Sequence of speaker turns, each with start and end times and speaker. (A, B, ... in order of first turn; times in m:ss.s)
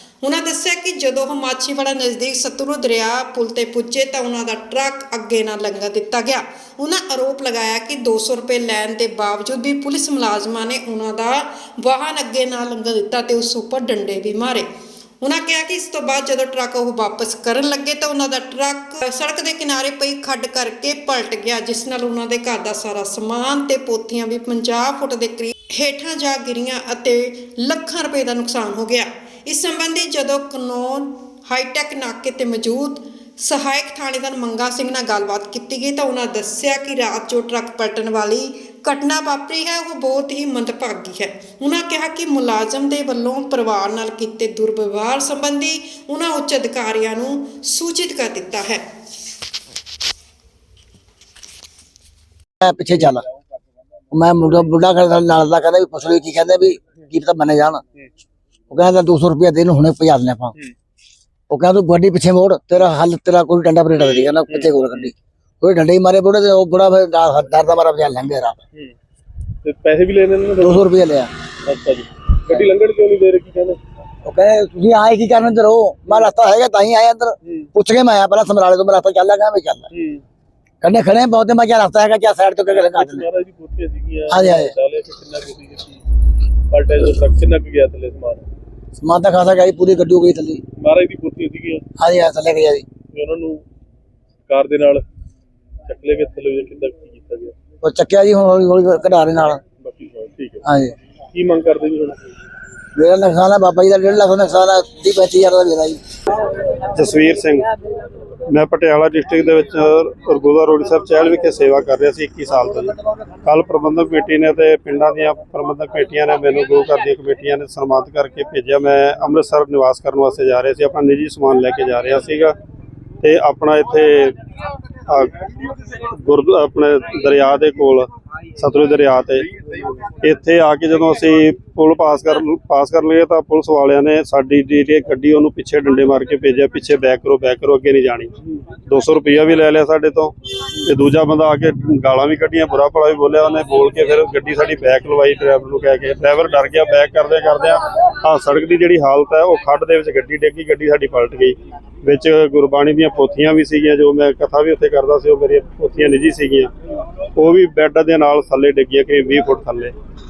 0:00.2-0:14.7 A
0:15.2-0:48.8 A
0:52.6-0:53.2 B
0:54.1-0:57.8 B
0:58.7-1:00.6 B
1:01.5-1:08.6 B
1:09.6-1:10.9 C
1:10.6-1:11.3 B
1:11.6-1:13.8 C
1:14.2-1:19.8 B
1:19.9-1:20.2 C
1:20.8-1:23.3 B
1:22.7-1:26.0 C
1:24.3-1:24.7 B
1:26.7-1:28.4 C
1:29.0-1:30.6 B
1:30.8-1:31.8 C
1:32.0-1:32.8 B
1:33.1-1:33.6 C
1:34.5-1:35.0 C
1:35.9-1:37.5 C
1:37.8-1:39.6 B
1:39.8-1:40.6 C
1:40.6-1:40.9 B
1:41.3-1:42.2 C
1:42.9-1:46.0 B
1:46.9-1:47.7 D
1:48.5-2:02.6 D
2:03.2-2:04.4 D
2:05.1-2:05.5 D
2:06.0-2:09.5 D
2:10.2-2:18.3 D
2:18.8-2:36.7 D
2:37.4-2:39.9 D